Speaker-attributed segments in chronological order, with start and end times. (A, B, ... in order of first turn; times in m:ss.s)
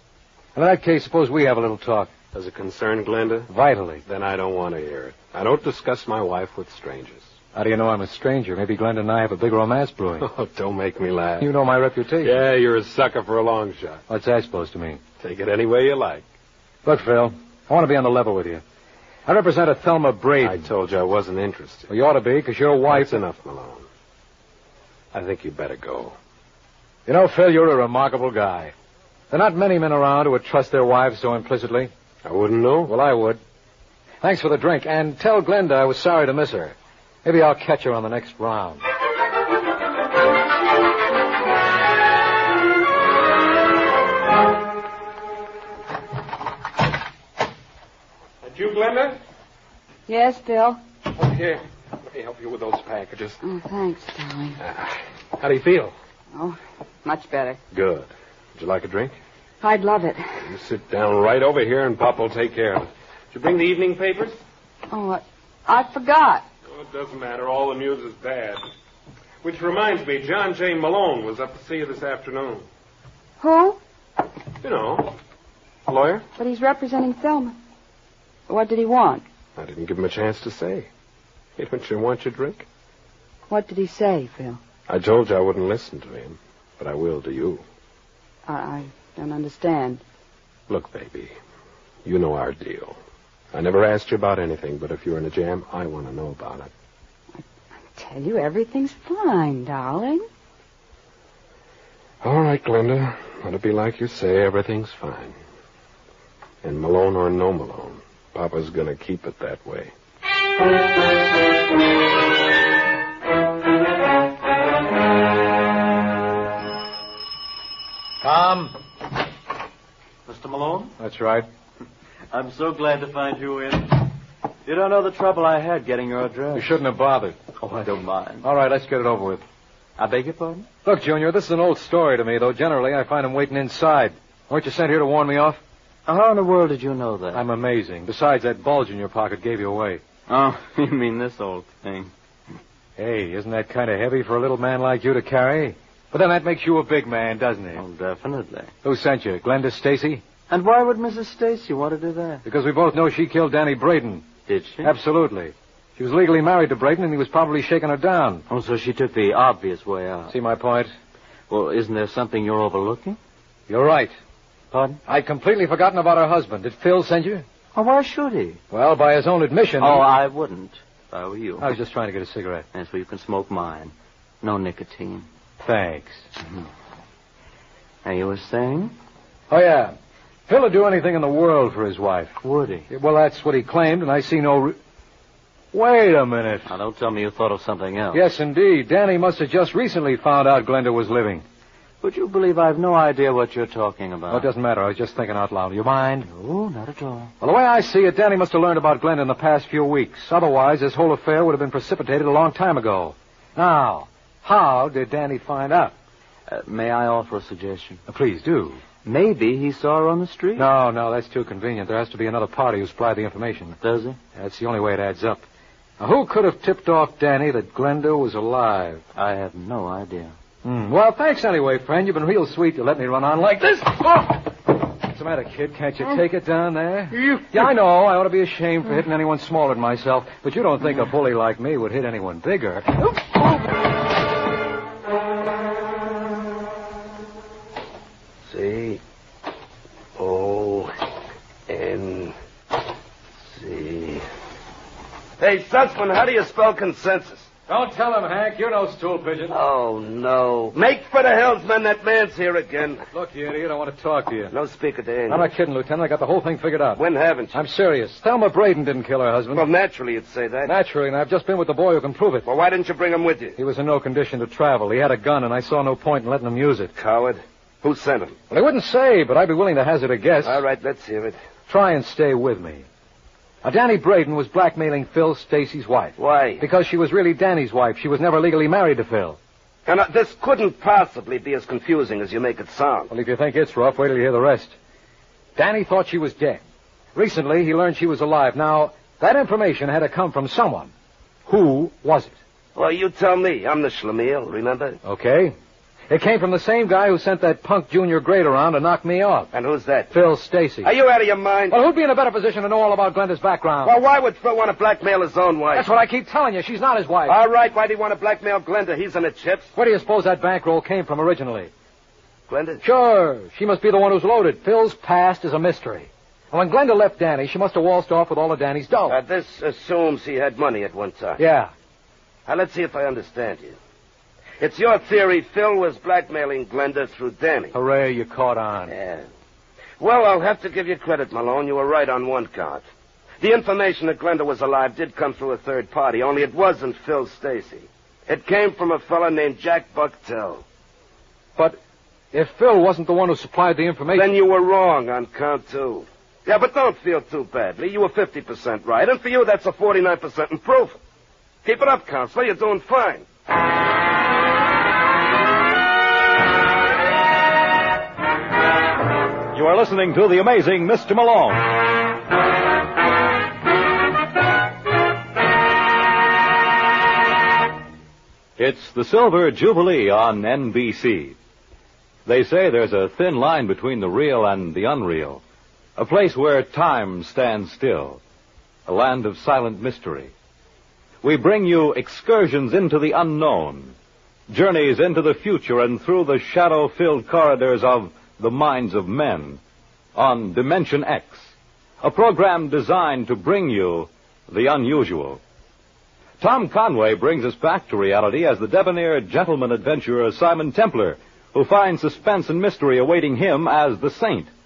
0:00.5-0:02.1 A
0:02.3-0:03.5 B
0:03.5-0:04.0 A
0:04.0-0:07.3 B
0:07.5-0:10.3 A
0:10.2-0:11.5 B
0:11.4-0:12.4 A
0:12.2-0:14.0 B
0:14.1-0:15.0 A
0:15.2-0:16.2 B
0:16.8-0:18.6 A
0:19.2-0:20.6 A
0:20.4-0:21.9 B
0:21.9-0:23.2 A
0:22.9-0:23.8 B
0:25.1-0:26.2 B
0:27.1-0:28.7 A
0:29.3-0:31.9 A
0:32.2-0:32.9 B
0:32.8-0:33.4 A
0:34.2-0:38.8 A
0:48.4-0:49.2 B
0:50.1-0:50.8 C
0:51.1-0:53.4 B
0:53.4-0:54.6 C
0:54.6-0:55.9 B
0:56.3-0:57.6 C
0:57.7-0:59.1 B
0:59.6-1:00.5 C
1:00.4-1:04.4 B
1:04.9-1:06.4 C
1:06.7-1:08.6 B
1:09.4-1:12.6 B
1:13.4-1:13.8 C
1:14.6-1:15.2 B
1:15.9-1:16.2 B
1:16.4-1:17.6 C
1:18.5-1:19.2 C
1:19.6-1:20.9 B
1:21.6-1:22.6 B
1:23.5-1:24.6 C
1:24.9-1:27.6 B
1:28.5-1:30.0 C
1:30.7-1:31.3 B
1:32.0-1:33.0 B
1:33.5-1:36.7 B
1:37.9-1:40.2 C
1:42.2-1:45.4 B
1:46.6-1:49.9 B
1:58.2-1:58.7 A
2:00.2-2:00.9 D
2:01.0-2:01.5 A
2:02.3-2:04.1 D
2:04.6-2:06.7 D
2:06.5-2:07.9 A
2:07.6-2:08.4 D
2:08.4-2:09.4 A
2:10.0-2:10.7 D
2:10.8-2:15.6 A
2:16.0-2:17.4 D
2:17.3-2:20.0 A
2:20.3-2:22.1 D
2:23.0-2:27.8 A
2:27.7-2:28.7 D
2:28.8-2:30.2 A
2:30.5-2:32.4 D
2:32.4-2:34.3 A
2:34.5-2:34.9 D
2:34.8-2:38.4 A
2:38.5-2:40.3 D
2:40.3-2:40.9 A
2:41.5-2:43.2 D
2:43.7-2:44.1 A
2:44.7-2:45.0 D
2:45.1-2:47.4 A
2:47.7-2:48.6 D
2:48.7-2:50.1 A
2:49.8-2:51.7 D
2:51.6-2:52.6 A
2:52.7-2:55.2 D
2:55.6-2:56.3 A
2:58.0-2:58.9 D
2:59.5-2:59.9 A
3:00.5-3:02.4 A
3:02.4-3:02.9 D
3:02.9-3:04.8 A
3:05.7-3:06.7 A
3:06.6-3:08.2 D
3:08.1-3:11.4 A
3:12.0-3:14.5 D
3:14.3-3:16.3 A
3:16.2-3:17.3 D
3:17.4-3:25.9 A
3:26.5-3:28.0 D
3:28.1-3:28.8 A
3:29.0-3:30.7 D
3:30.6-3:33.8 A
3:33.8-3:34.2 D
3:34.4-3:35.4 A
3:36.0-3:39.0 A
3:39.1-3:40.3 D
3:40.6-3:44.5 A
3:45.0-3:53.1 A
3:47.2-3:47.6 D
3:58.5-3:59.0 E
4:00.2-4:00.9 E
4:01.7-4:02.3 E
4:03.4-4:04.2 E
4:05.4-4:07.5 E
4:07.7-4:09.6 A
4:09.5-4:13.0 E
4:13.1-4:14.5 A
4:14.5-4:15.5 E
4:15.3-4:19.6 A
4:17.0-4:17.6 E
4:19.5-4:20.7 E
4:20.6-4:22.5 A
4:22.4-4:23.6 E
4:23.6-4:26.9 A
4:26.9-4:28.4 E
4:28.5-4:30.6 A
4:30.4-4:31.4 E
4:31.7-4:32.8 A
4:33.6-4:39.4 A
4:36.2-4:36.6 E
4:39.8-4:43.1 E
4:43.1-4:44.7 A
4:45.6-4:46.6 A
4:47.1-4:50.9 A
4:51.5-4:52.3 A
4:52.7-4:55.0 E
4:55.0-4:55.6 A
4:56.1-4:59.5 A
4:59.5-5:00.1 E
5:00.1-5:00.9 A
5:00.8-5:01.8 E
5:01.7-5:03.9 A
5:03.8-5:05.9 E
5:05.7-5:07.4 A
5:07.3-5:09.7 E
5:09.7-5:11.7 A
5:12.5-5:12.8 E
5:12.8-5:19.2 A
5:19.1-5:21.4 E
5:21.4-5:21.7 A
5:22.5-5:23.8 E
5:24.6-5:27.7 E
5:27.7-5:28.9 A
5:28.9-5:29.2 E
5:30.0-5:32.8 E
5:33.4-5:40.6 E
5:42.3-5:44.3 A
5:44.1-5:51.0 E
5:51.6-5:53.2 E
5:59.5-6:01.7 F
6:08.6-6:11.4 F
6:12.2-6:15.4 F
6:16.0-6:18.2 F
6:18.8-6:20.3 F
6:21.2-6:23.9 F
6:24.5-6:29.6 F
6:30.1-6:35.4 F
6:36.4-6:44.5 F